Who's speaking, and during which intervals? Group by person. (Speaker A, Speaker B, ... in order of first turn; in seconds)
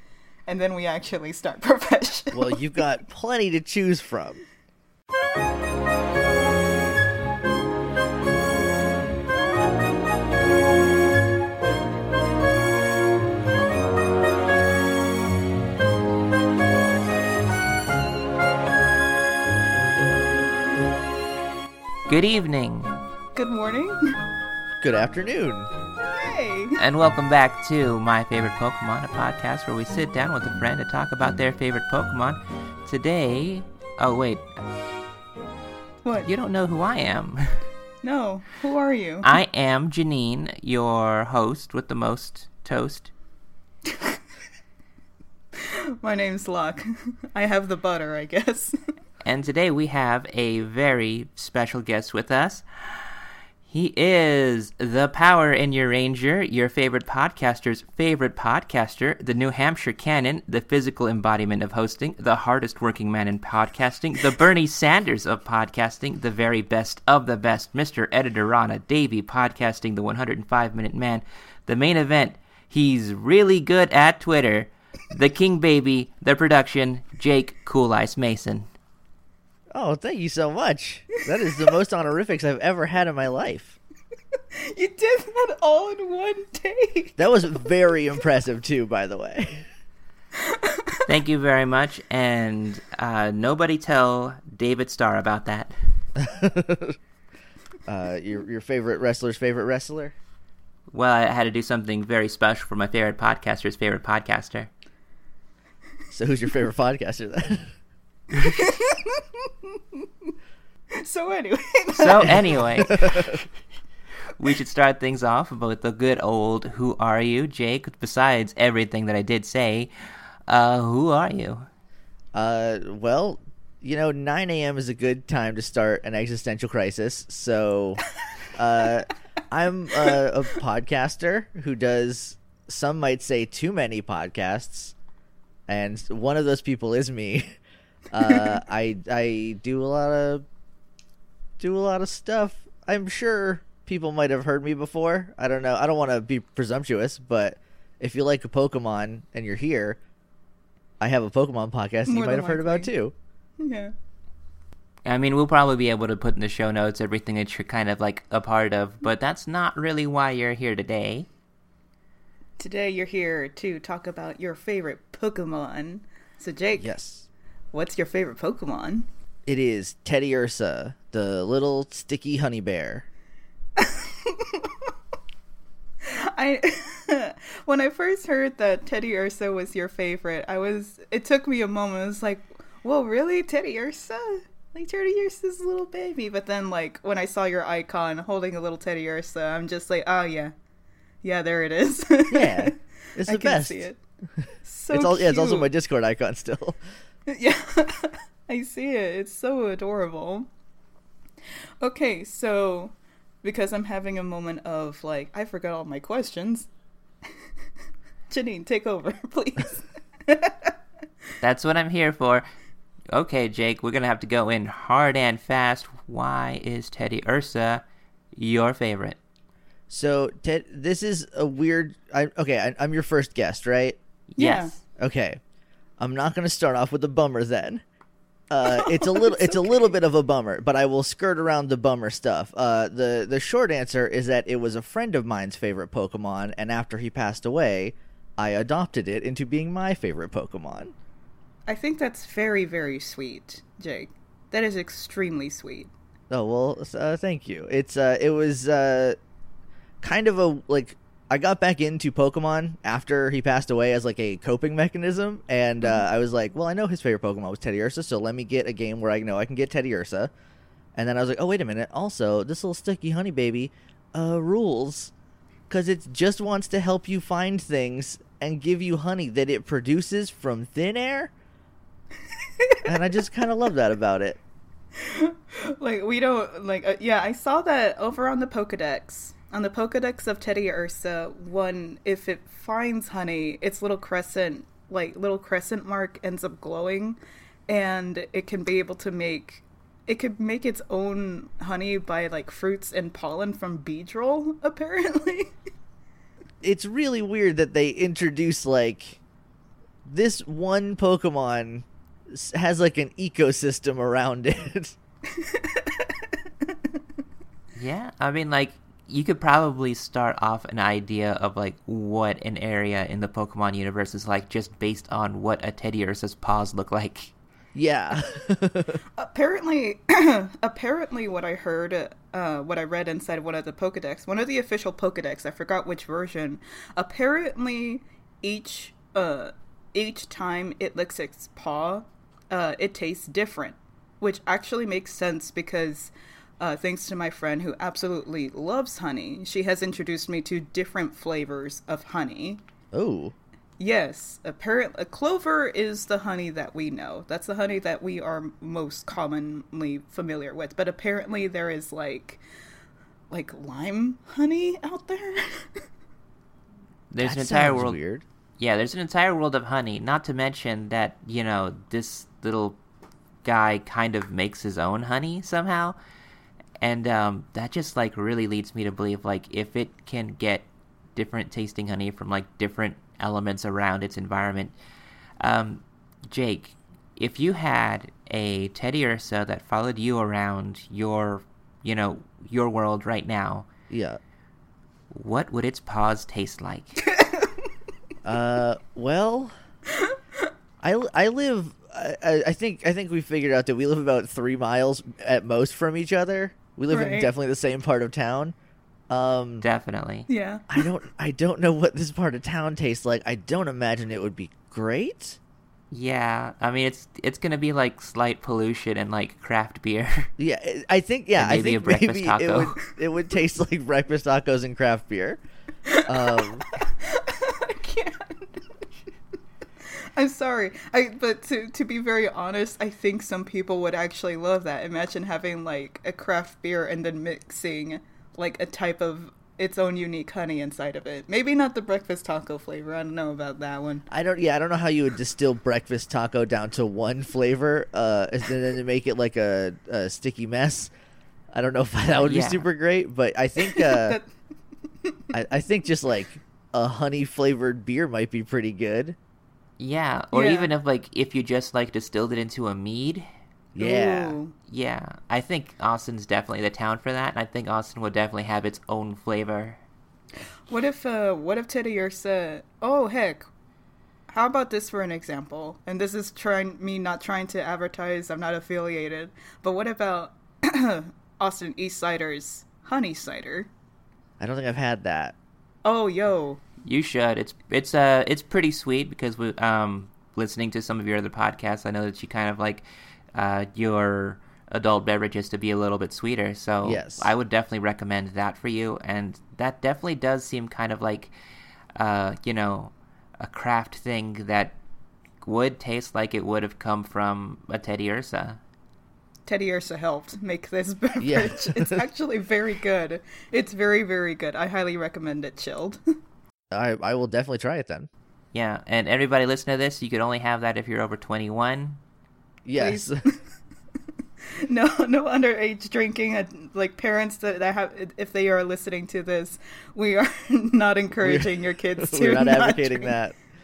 Speaker A: 0.5-2.6, 23.4-24.2, 26.1-26.8, 38.0-39.3, 43.9-44.2, 45.6-48.8, 84.5-87.2, 90.4-91.0, 108.4-110.0, 111.0-112.9, 152.1-152.9, 153.6-153.9, 162.6-166.9, 167.7-169.1, 173.8-174.8, 176.0-190.5, 191.2-194.0, 194.6-195.7, 197.3-200.5, 201.8-206.7, 208.3-210.7, 224.4-224.7, 228.6-229.9, 241.7-245.9, 275.0-295.5, 305.3-306.7, 319.2-342.6, 343.8-352.4, 353.3-355.9, 387.1-387.5, 396.9-397.3, 400.3-400.8, 415.9-418.9, 419.8-434.1, 443.6-444.3, 450.3-450.7, 453.8-454.5, 460.7-463.5, 464.3-473.7, 475.8-476.6, 499.5-506.0, 512.8-513.4, 514.6-523.2
Speaker B: 2.3-4.4, 24.8-25.7, 79.7-83.8, 87.2-89.7, 96.2-97.0, 97.9-100.2, 106.1-107.8, 112.8-113.3, 122.3-134.9, 135.7-137.6, 138.1-140.4, 141.6-150.0, 151.0-153.1, 166.8-167.3, 169.5-173.1, 192.3-193.8, 194.4-196.8, 219.9-224.0, 225.0-225.4, 226.0-227.8, 228.5-240.9, 246.3-249.2, 250.0-260.3, 261.0-265.1, 265.7-271.3, 272.9-274.4, 296.6-299.2, 300.1-304.9, 317.8-319.0, 342.9-343.4, 357.2-358.2, 383.9-384.2, 388.2-389.5, 390.8-398.6, 399.1-399.6, 400.7-405.4, 410.4-415.4, 416.1-416.6, 434.1-440.9, 441.5-444.2, 445.3-449.2, 453.7-454.4, 474.4-475.4, 486.8-487.3, 501.2-502.0, 506.7-508.1, 512.6-513.2, 521.2-523.4
Speaker C: 22.1-23.0, 26.8-34.5, 36.2-37.7, 39.2-43.1, 49.2-78.7, 91.0-95.7, 100.9-104.7, 112.0-113.4, 114.3-119.9, 120.5-121.7, 155.1-161.3, 211.4-212.5, 213.1-217.8, 218.3-219.2, 224.3-224.8, 307.7-317.3, 357.1-358.0, 358.6-362.8, 363.4-366.0, 366.8-374.7, 375.4-383.7, 385.1-387.0, 399.6-400.3, 405.9-410.3, 411.4-412.8, 442.2-442.7, 449.8-453.3, 454.7-459.8, 476.8-491.3, 492.0-494.8, 495.4-498.6, 508.5-512.0